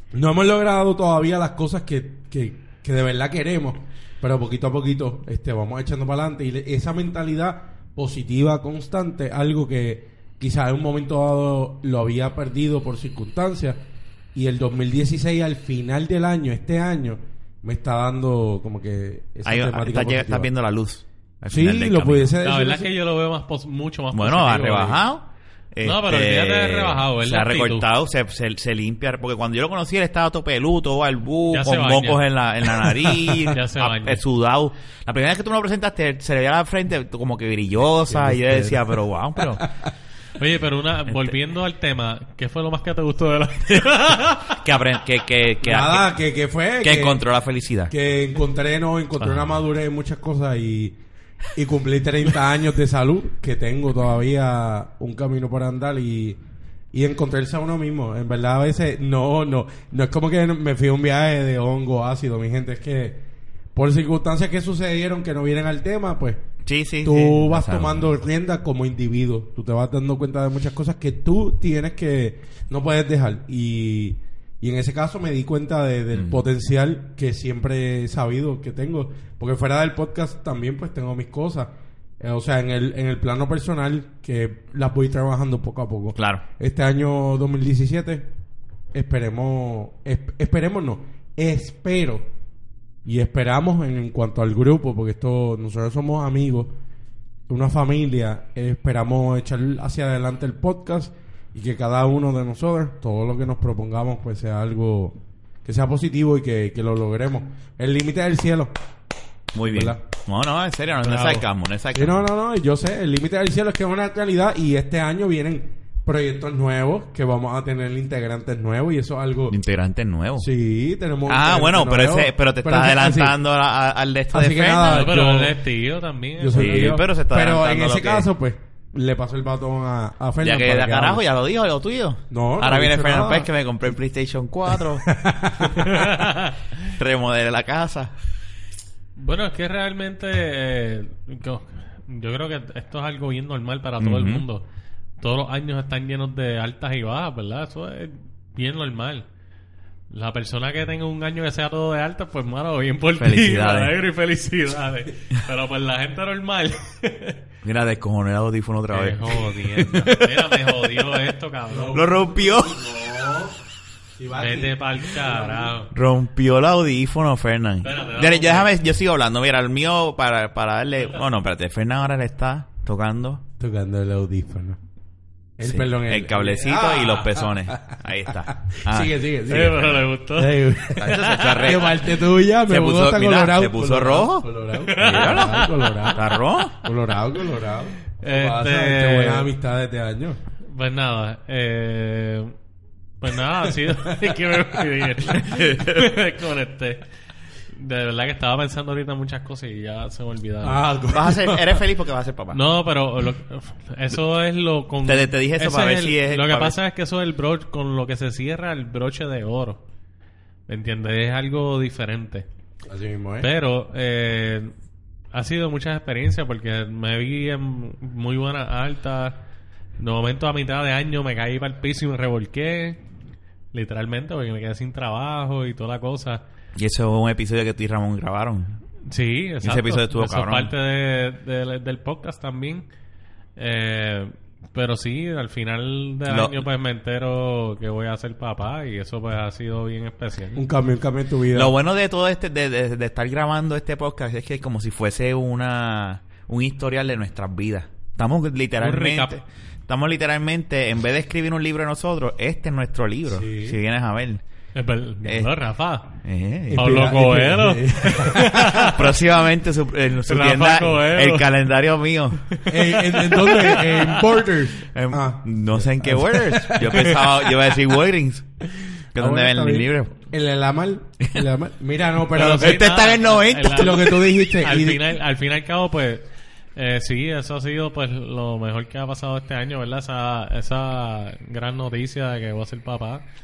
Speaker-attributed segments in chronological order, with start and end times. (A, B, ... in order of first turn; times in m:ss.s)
0:00.1-0:13.8 A
0:14.3-0:20.5 A
0:19.4-0:22.3 B
0:21.5-0:22.9 A
0:22.4-0:25.0 C
0:24.1-0:39.7 B
0:25.8-0:27.9 C
0:31.5-0:32.2 C
0:33.4-0:34.2 C
0:38.0-0:39.6 A
0:40.4-0:44.6 C
0:41.1-0:41.3 B
0:44.5-0:46.1 B
0:45.6-0:47.2 A
0:46.8-0:47.9 B
0:47.9-0:51.0 A
0:51.5-0:56.4 A
0:56.9-1:03.2 A
1:03.7-1:06.4 A
1:06.6-1:08.1 B
1:07.0-1:28.3 A
1:16.1-1:16.4 B
1:26.2-1:26.4 B
1:28.9-1:32.3 A
1:33.0-1:36.7 A
1:37.5-1:48.7 A
1:49.5-1:52.2 B
1:49.6-1:50.0 A
1:51.0-1:51.4 C
1:51.9-1:59.6 A
1:59.5-2:00.5 B
2:00.4-2:03.4 A
2:01.3-2:05.1 B
2:04.3-2:05.6 A
2:04.8-2:07.0 C
2:06.4-2:11.2 A
2:06.5-2:08.3 B
2:10.4-2:15.1 B
2:12.3-2:13.5 A
2:15.0-2:15.8 A
2:15.8-2:16.5 C
2:16.8-2:18.1 B
2:19.2-2:24.6 C
2:24.0-2:24.4 B
2:25.2-2:29.3 C
2:30.1-2:37.4 C
2:33.2-2:33.9 B
2:37.6-2:40.7 B
2:38.9-2:42.1 C
2:41.7-2:43.6 A
2:41.9-2:42.8 B
2:44.2-2:45.7 A
2:44.4-2:45.9 C
2:45.9-2:53.4 B
2:47.8-2:48.7 C
2:53.6-2:54.8 A
2:55.6-3:06.2 A
2:55.6-2:59.2 B
2:59.5-3:01.6 C
3:01.0-3:06.8 B
3:04.8-3:06.4 C
3:06.8-3:10.4 A
3:08.2-3:09.5 C
3:10.6-3:12.5 C
3:13.2-3:17.0 C
3:15.5-3:16.1 B
3:17.7-3:20.8 C
3:20.6-3:21.8 A
3:21.1-3:22.6 B
3:22.5-3:29.8 C
3:25.0-3:26.8 B
3:30.7-3:32.5 C
3:32.9-3:33.5 A
3:33.4-3:34.7 C
3:35.3-3:39.4 C
3:40.0-3:43.0 C
3:43.7-3:46.4 C
3:46.8-3:48.8 B
3:49.0-3:52.9 C
3:49.6-3:50.7 B
3:53.6-4:00.6 C
3:56.3-3:56.7 B
4:00.5-4:01.7 A
4:01.5-4:14.4 B
4:08.8-4:09.4 C
4:13.3-4:13.8 A
4:14.7-4:16.1 C
4:15.2-4:15.5 B
4:16.2-4:17.0 B
4:16.7-4:18.9 A
4:16.7-4:19.1 C
4:18.8-4:22.5 B
4:20.3-4:21.5 C
4:22.6-4:24.4 C
4:22.7-4:27.8 A
4:24.9-4:30.2 B
4:29.2-4:32.8 A
4:32.3-4:43.2 C
4:32.3-4:34.3 B
4:33.7-4:35.0 A